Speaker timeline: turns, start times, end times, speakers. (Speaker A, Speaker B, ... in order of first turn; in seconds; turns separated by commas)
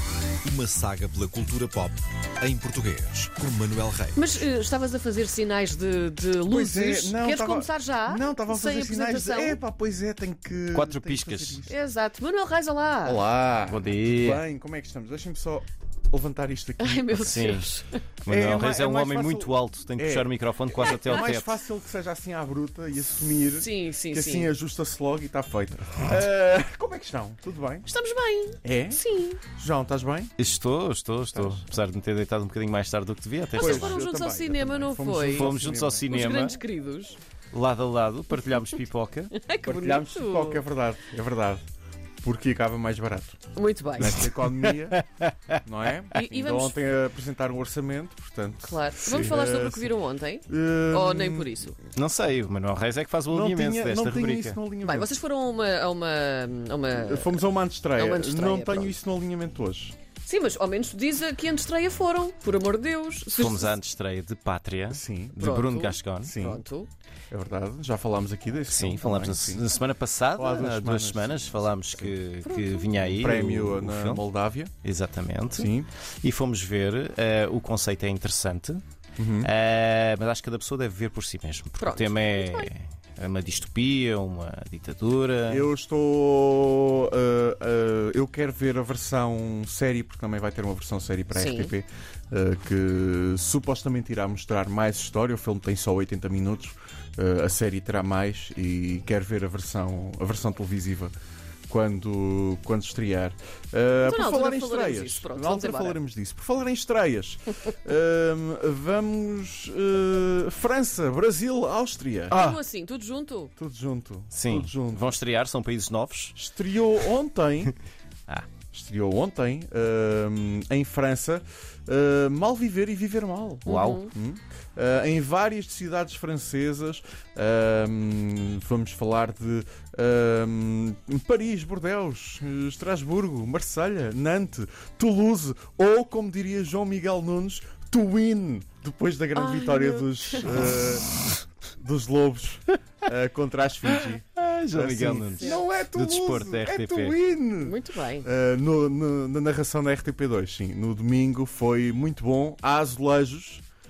Speaker A: 0.4-4.3, Speaker B: 4.2-9.6, Speaker C: 6.5-11.7, Speaker D: 10.7-11.7, Speaker B: 11.7-13.2, Speaker C: 13.0-17.6, Speaker D: 13.7-14.4, Speaker B: 16.8-18.0, Speaker D: 17.2-17.7, Speaker D: 18.2-21.6, Speaker C: 18.3-27.9, Speaker B: 23.6-24.5, Speaker B: 27.9-29.4, Speaker C: 28.6-30.4, Speaker D: 30.4-34.0, Speaker C: 31.3-31.6, Speaker C: 33.6-36.1, Speaker B: 33.6-37.2, Speaker D: 35.3-36.6, Speaker D: 37.5-39.3, Speaker B: 39.3-40.6, Speaker C: 39.6-41.6, Speaker C: 42.2-43.4, Speaker B: 43.5-44.2, Speaker C: 43.9-45.0, Speaker D: 44.0-45.4, Speaker C: 45.6-50.0, Speaker B: 46.1-46.8, Speaker B: 48.6-51.8, Speaker C: 50.5-51.7, Speaker D: 52.0-54.6, Speaker C: 53.3-55.2, Speaker B: 54.8-57.4, Speaker C: 57.0-60.0, Speaker B: 58.0-59.0, Speaker B: 60.2-63.8, Speaker D: 63.3-66.3, Speaker C: 64.9-65.4, Speaker B: 65.4-66.9, Speaker C: 66.2-66.6, Speaker C: 67.3-69.6, Speaker D: 68.7-74.2, Speaker C: 70.4-72.1, Speaker B: 72.5-72.9, Speaker C: 73.0-74.7, Speaker D: 74.8-78.8, Speaker C: 75.5-75.9, Speaker C: 79.2-79.5, Speaker D: 79.4-85.7, Speaker B: 81.8-82.7, Speaker C: 85.5-101.1, Speaker B: 91.3-91.7, Speaker C: 101.7-112.6, Speaker B: 104.0-106.0, Speaker B: 112.3-113.5, Speaker C: 113.6-115.1, Speaker D: 114.3-116.3, Speaker C: 116.3-117.7, Speaker C: 118.7-141.1, Speaker D: 123.7-124.1, Speaker B: 123.7-124.1, Speaker B: 139.4-140.7, Speaker C: 141.7-153.6, Speaker D: 144.4-147.2, Speaker B: 147.6-148.3